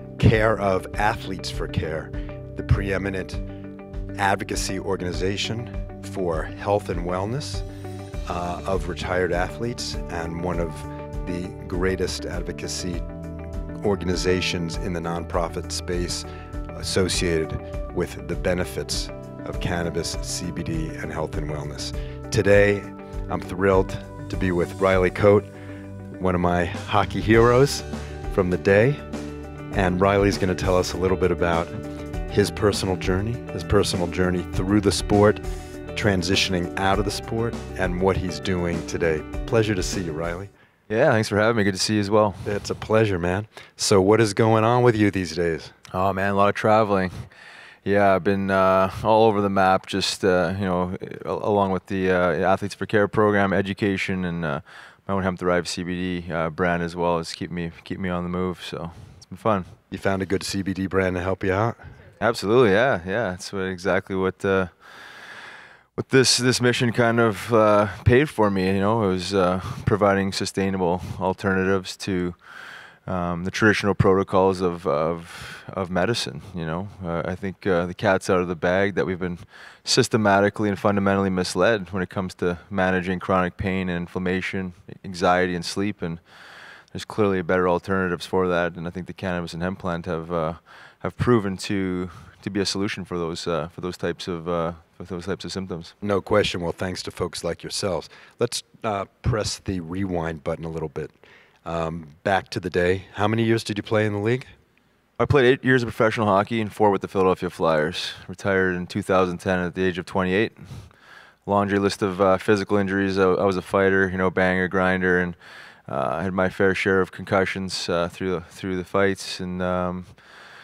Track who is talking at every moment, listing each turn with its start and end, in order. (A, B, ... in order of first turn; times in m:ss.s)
0:00.2-0:03.4 A
0:04.2-0:07.6 A
0:08.3-0:13.0 A
0:13.8-0:25.5 A
0:26.2-0:29.0 A
0:29.7-0:31.8 A
0:32.3-0:40.5 A
0:40.9-0:42.5 B
0:42.4-0:45.7 A
0:45.9-0:47.3 B
0:47.8-0:59.8 B
0:59.9-1:01.9 A
1:02.2-1:04.7 B
1:06.0-1:12.4 B
1:13.1-1:26.2 B
1:26.9-1:35.9 B
1:36.0-1:44.5 A
1:45.2-1:50.8 B
1:51.4-1:55.4 B
1:55.9-2:00.1 B